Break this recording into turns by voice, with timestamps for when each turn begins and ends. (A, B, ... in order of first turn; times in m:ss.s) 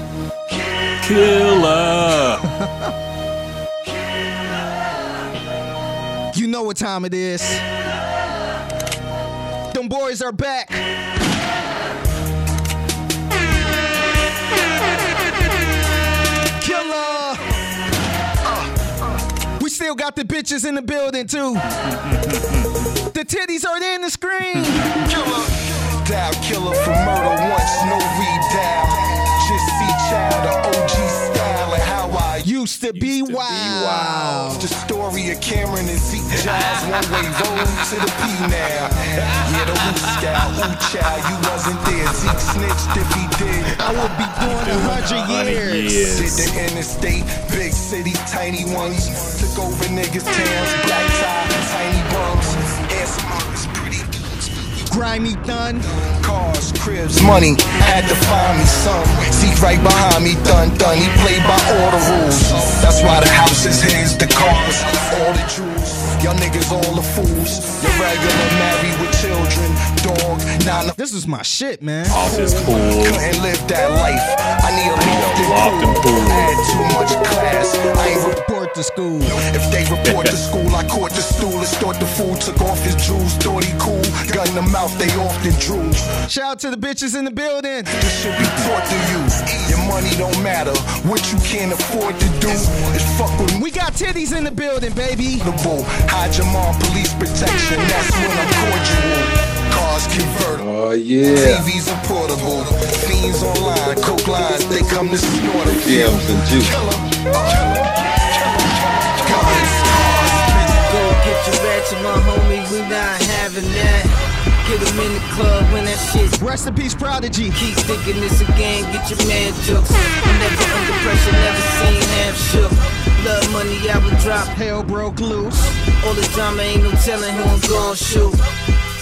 0:01.0-0:02.4 A
0:06.3-0:07.6 B
0:09.7-0:10.8 B
0:16.6-0:17.5 B
0:19.6-0:21.7 B
0:23.1-0:24.9 B
0:25.0-0:32.5 C
0:32.4-0:34.7 B
0:32.9-0:34.6 A
0:34.6-0:44.1 C
0:43.8-0:46.0 B
0:44.6-0:46.5 A
0:46.1-0:54.8 C
0:54.9-0:55.9 B
0:56.1-1:11.0 C
1:11.0-1:12.2 B
1:12.1-1:13.2 A
1:12.1-1:18.4 C
1:14.9-1:16.5 A
1:18.2-1:19.4 B
1:19.2-1:26.1 C
1:20.0-1:20.3 A
1:26.3-1:28.0 B
1:27.9-1:33.6 C
1:33.6-1:35.5 B
1:35.4-1:40.7 C
1:40.6-1:41.7 D
1:41.3-1:50.8 C
1:45.4-1:46.8 D
1:49.2-1:49.7 E
1:50.6-1:56.4 E
1:56.4-1:57.7 B
1:57.6-2:04.5 E
2:04.5-2:05.8 B
2:05.8-2:08.4 E